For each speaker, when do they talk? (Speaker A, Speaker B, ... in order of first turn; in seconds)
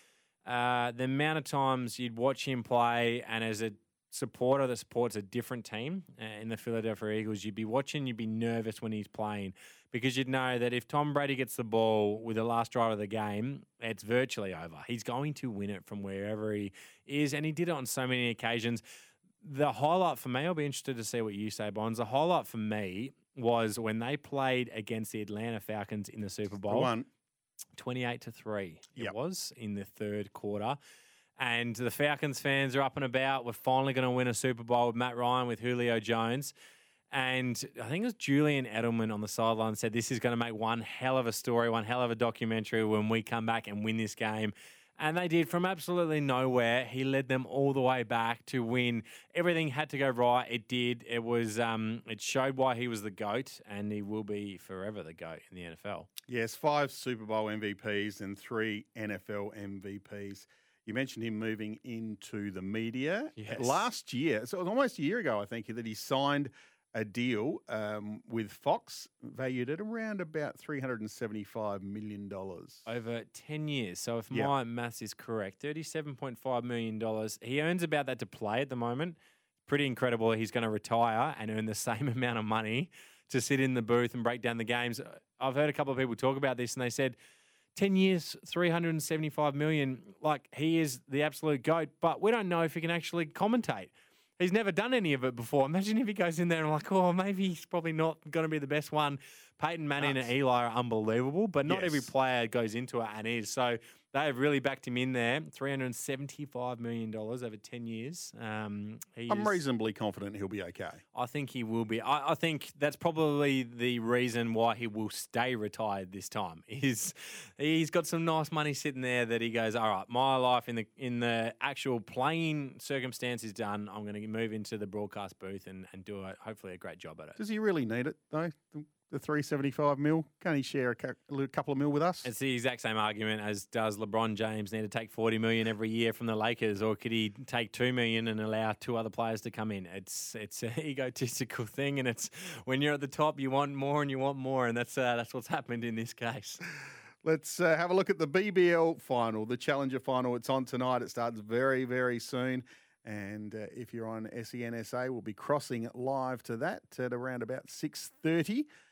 Speaker A: 0.5-18.8, 19.4-26.9, 27.8-30.8, 31.4-36.5, 37.1-56.1, 63.4-63.9, 72.9-87.2, 87.8-109.6, 111.1-127.4, 132.2-146.6
Speaker B: 26.5-27.1, 56.3-72.9, 100.0-100.3, 101.7-102.1, 109.3-111.0, 127.4-132.3, 147.2-158.7